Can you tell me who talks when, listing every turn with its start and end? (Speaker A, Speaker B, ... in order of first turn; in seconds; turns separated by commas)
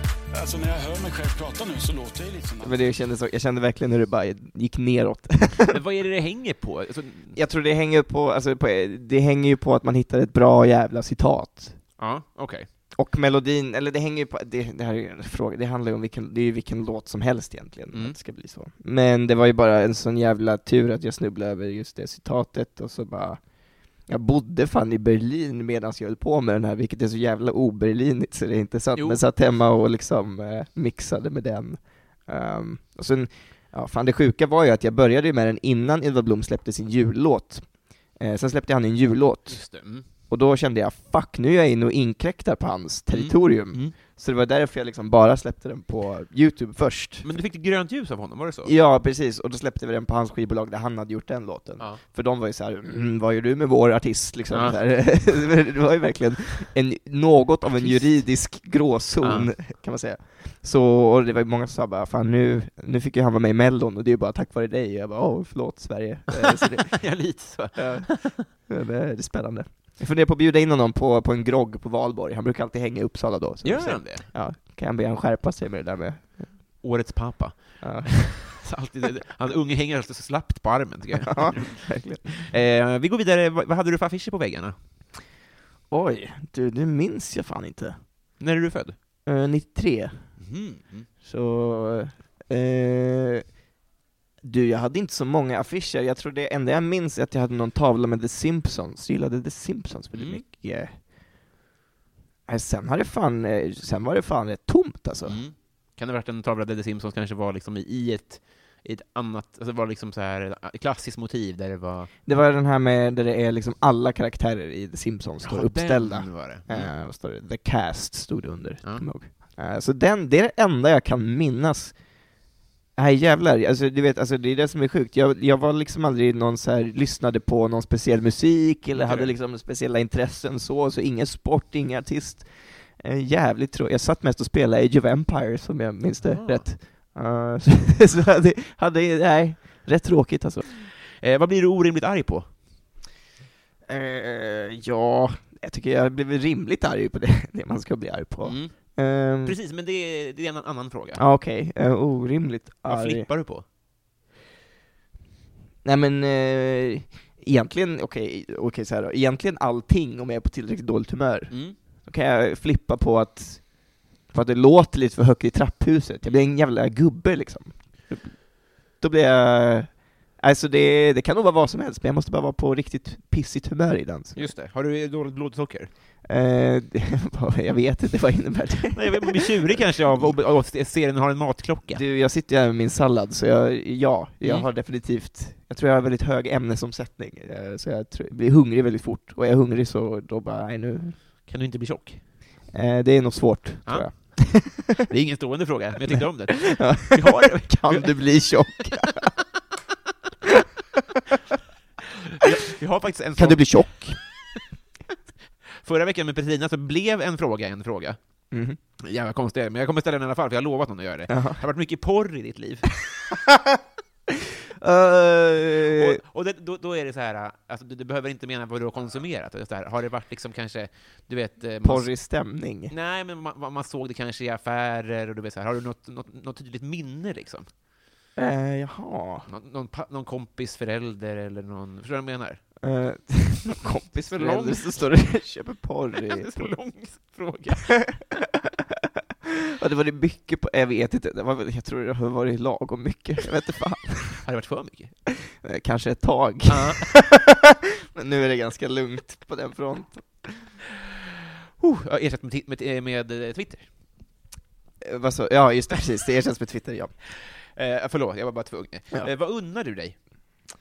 Speaker A: 0.3-2.9, Speaker B: 2.6-5.8, Speaker C: 5.7-7.4, Speaker B: 7.3-11.8, Speaker C: 12.0-12.7, Speaker B: 12.9-47.3, Speaker C: 28.9-29.2, Speaker C: 39.5-40.0, Speaker C: 43.1-43.9, Speaker C: 47.2-48.7, Speaker B: 48.6-76.7, Speaker C: 54.5-54.8, Speaker C: 57.7-58.5, Speaker C: 59.2-59.5, Speaker C: 66.3-68.4, Speaker C: 73.6-74.3, Speaker C: 76.8-84.8, Speaker B: 77.8-78.7, Speaker B: 81.2-82.3, Speaker B: 85.9-88.0, Speaker C: 88.4-89.0, Speaker B: 89.2-90.5, Speaker C: 90.4-91.1, Speaker B: 91.2-93.5, Speaker B: 94.4-101.0, Speaker C: 100.1-100.4, Speaker B: 102.5-105.4, Speaker C: 105.2-112.1, Speaker B: 112.2-122.3, Speaker C: 115.4-116.9, Speaker B: 123.0-140.7, Speaker C: 128.9-129.3, Speaker C: 136.2-136.8, Speaker C: 141.2-142.6, Speaker B: 143.9-149.6, Speaker C: 148.4-151.2, Speaker B: 151.2-153.3, Speaker C: 152.8-153.6, Speaker B: 155.8-174.5, Speaker C: 161.5-161.8, Speaker C: 174.3-175.9, Speaker B: 176.2-180.3, Speaker C: 178.9-182.0, Speaker B: 181.9-191.2, Speaker C: 184.4-184.7, Speaker C: 191.4-192.3, Speaker B: 192.7-194.9, Speaker C: 193.8-198.7, Speaker B: 196.1-199.3, Speaker C: 202.4-204.3, Speaker B: 203.3-204.3, Speaker C: 205.8-213.0, Speaker B: 208.5-208.8, Speaker B: 211.3-211.6, Speaker B: 214.8-216.2, Speaker C: 215.9-227.7, Speaker B: 221.8-222.9, Speaker B: 228.3-229.5, Speaker C: 229.5-232.8, Speaker B: 232.8-236.9, Speaker C: 234.3-235.6, Speaker C: 236.3-238.3, Speaker B: 239.8-244.4, Speaker C: 244.4-245.3, Speaker B: 245.6-250.7, Speaker C: 246.7-247.1, Speaker C: 251.8-254.2, Speaker B: 255.0-257.2, Speaker C: 257.6-260.2